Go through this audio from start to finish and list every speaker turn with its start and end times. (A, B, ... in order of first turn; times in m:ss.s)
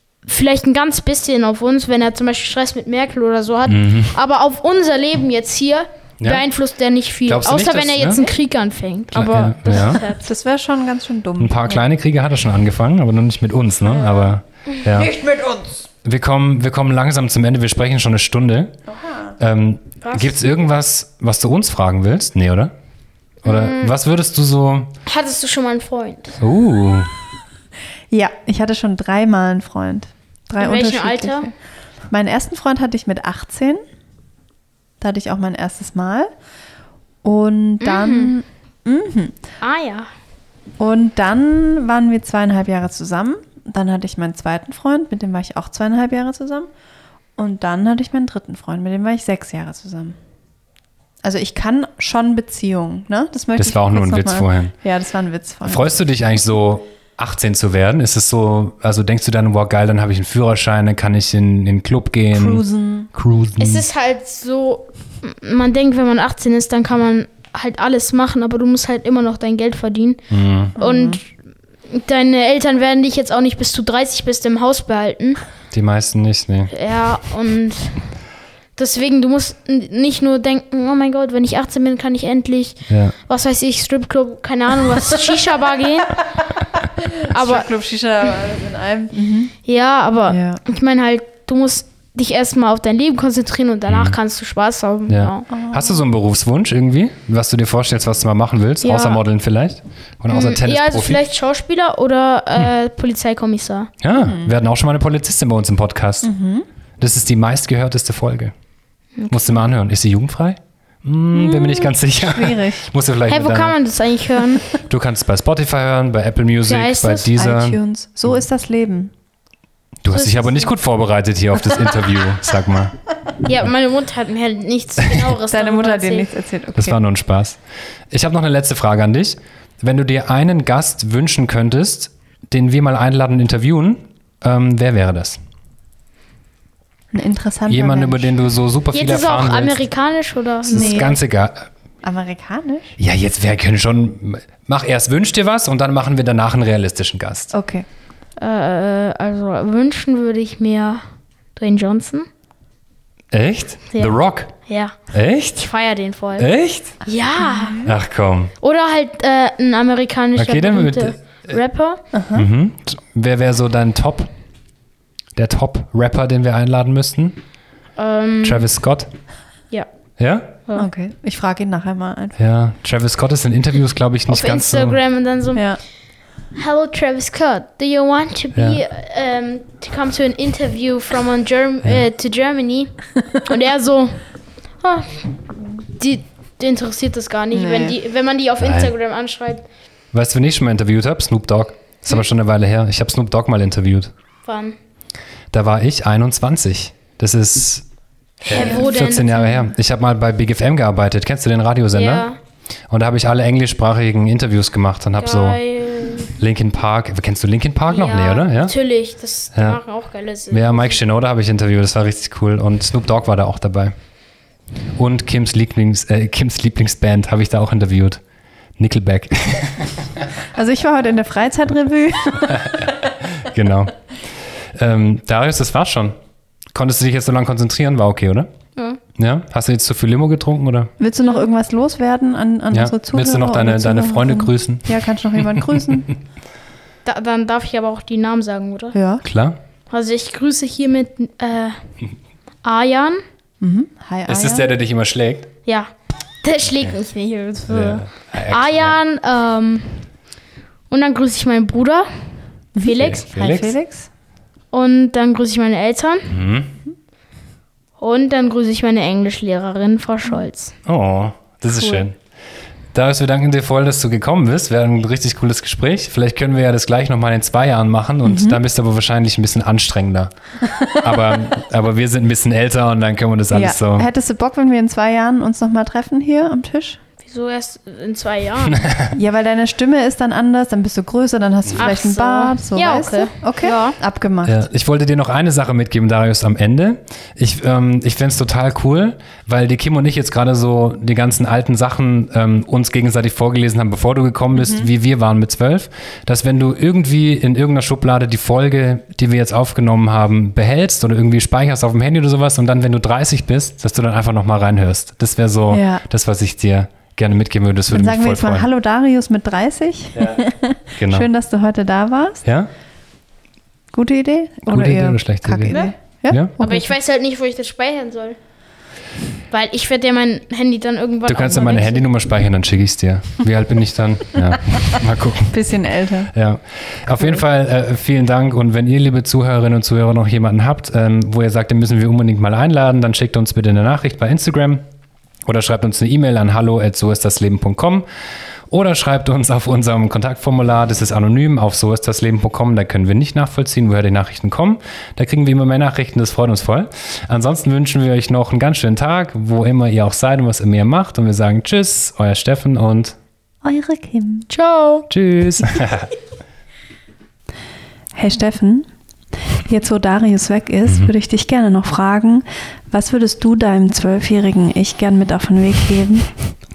0:00.2-0:10.3 A
0:03.7-0:04.1 B
0:07.2-0:08.3 B
0:09.1-0:10.0 B
0:10.1-0:11.8 C
0:11.4-0:15.1 B
0:13.9-0:14.3 A
0:14.9-0:15.7 C
0:16.0-0:18.7 B
0:19.0-0:19.3 C
0:19.4-0:22.7 B
0:20.0-0:20.3 A
0:23.4-0:24.0 A
0:23.4-0:24.9 B
0:25.0-0:26.4 A
0:26.4-0:27.1 B
0:28.1-0:31.5 C
0:30.6-0:31.5 A
0:32.1-0:33.8 C
0:35.0-0:36.3 C
0:37.2-0:39.4 C
0:37.8-0:38.3 A
0:39.6-0:40.1 A
0:40.8-0:46.7 C
0:47.4-0:50.2 C
0:51.2-0:55.9 C
0:53.6-0:54.7 B
0:55.6-1:02.6 B
1:02.3-1:03.1 C
1:03.1-1:03.8 B
1:03.6-1:10.2 A
1:10.3-1:10.7 B
1:10.7-1:11.3 A
1:10.8-1:11.2 C
1:11.9-1:15.4 A
1:15.7-1:16.7 B
1:16.7-1:18.0 A
1:18.8-1:26.3 A
1:22.9-1:23.1 B
1:27.0-1:29.5 C
1:27.2-1:27.7 A
1:29.6-1:35.5 A
1:30.3-1:30.6 C
1:33.9-1:34.2 B
1:35.1-1:41.2 B
1:35.5-1:36.0 C
1:38.8-1:39.2 A
1:40.3-1:43.9 A
1:44.0-1:46.3 B
1:44.2-1:44.5 C
1:46.2-1:46.6 C
1:47.0-1:48.5 B
1:49.2-1:49.6 A
1:49.3-1:53.8 B
1:51.3-1:52.9 C
1:53.3-1:54.7 A
1:54.7-1:57.8 B
1:56.7-1:57.3 A
1:57.4-1:59.1 C
2:00.0-2:03.0 B
2:00.1-2:00.7 A
2:03.4-2:06.3 A
2:05.5-2:07.0 C
2:06.8-2:15.4 B
2:17.1-2:18.3 C
2:17.7-2:19.8 B
2:18.9-2:21.2 A
2:20.7-2:21.7 B
2:20.7-2:21.2 C
2:22.0-2:23.0 C
2:23.0-2:27.5 B
2:27.5-2:27.8 C
2:28.4-2:31.0 A
2:31.6-2:32.3 A
2:33.3-2:34.5 B
2:33.9-2:35.0 A
2:35.1-2:35.6 B
2:35.5-2:37.8 A
2:36.4-2:37.0 B
2:37.4-2:37.9 C
2:37.8-2:38.5 B
2:38.6-2:42.0 A
2:40.4-2:41.5 B
2:42.1-2:42.4 C
2:42.3-2:44.3 B
2:45.4-2:47.4 B
2:48.0-2:48.7 A
2:48.4-2:49.1 B
2:50.2-2:50.5 B
2:50.8-2:52.4 C
2:52.4-2:55.0 B
2:54.3-2:55.8 A
2:56.5-3:04.2 A
3:04.8-3:05.3 A
3:05.8-3:09.6 A
3:07.5-3:08.0 C
3:08.6-3:08.9 B
3:10.1-3:14.1 B
3:14.4-3:14.7 A
3:15.5-3:17.8 B
3:18.4-3:22.3 B
3:18.5-3:19.6 A
3:18.5-3:18.8 C
3:21.9-3:22.4 A
3:22.9-3:25.6 B
3:25.2-3:26.4 A
3:26.4-3:28.7 B
3:27.9-3:31.0 A
3:29.5-3:29.8 B
3:30.5-3:33.9 B
3:35.0-3:38.2 B
3:38.8-3:40.0 B
3:40.5-3:42.9 C
3:42.5-3:43.9 B
3:44.6-3:46.2 B
3:46.7-3:48.5 B
3:49.1-3:50.9 B
3:51.0-3:56.1 C
3:52.7-3:55.8 B
3:57.0-3:58.9 A
3:58.9-3:59.2 C
3:59.2-3:59.6 B
3:59.9-4:01.8 A
4:02.6-4:03.2 A
4:03.6-4:04.7 C
4:04.3-4:05.5 B
4:05.6-4:05.9 A
4:06.4-4:10.0 A
4:07.7-4:09.0 B
4:10.9-4:12.1 A
4:12.8-4:14.1 C
4:12.8-4:13.3 A
4:12.9-4:13.7 B
4:14.7-4:16.3 A
4:16.3-4:16.7 B
4:18.0-4:20.7 A
4:20.8-4:22.2 B
4:22.9-4:30.3 B
4:28.2-4:28.6 C
4:30.6-4:31.4 C
4:30.9-4:34.1 B
4:33.5-4:37.0 C
4:37.2-4:38.9 A
4:38.7-4:39.1 B
4:39.1-4:44.6 C
4:41.7-4:41.9 B
4:41.8-4:44.0 A
4:44.4-5:08.7 B
4:54.5-4:54.9 C
5:05.7-5:06.0 C
5:07.9-5:12.4 C
5:10.2-5:11.3 B
5:12.4-5:12.7 B
5:13.9-5:16.9 C
5:14.7-5:15.8 B
5:16.6-5:18.4 A
5:19.5-5:22.1 A
5:21.3-5:25.7 B
5:24.8-5:26.3 C
5:26.3-5:34.8 B
5:35.4-5:38.0 B
5:38.7-5:53.2 B
5:53.6-5:54.5 C
5:54.5-5:55.1 A
5:55.1-5:56.1 B
5:58.1-5:58.9 C
5:59.6-6:06.3 C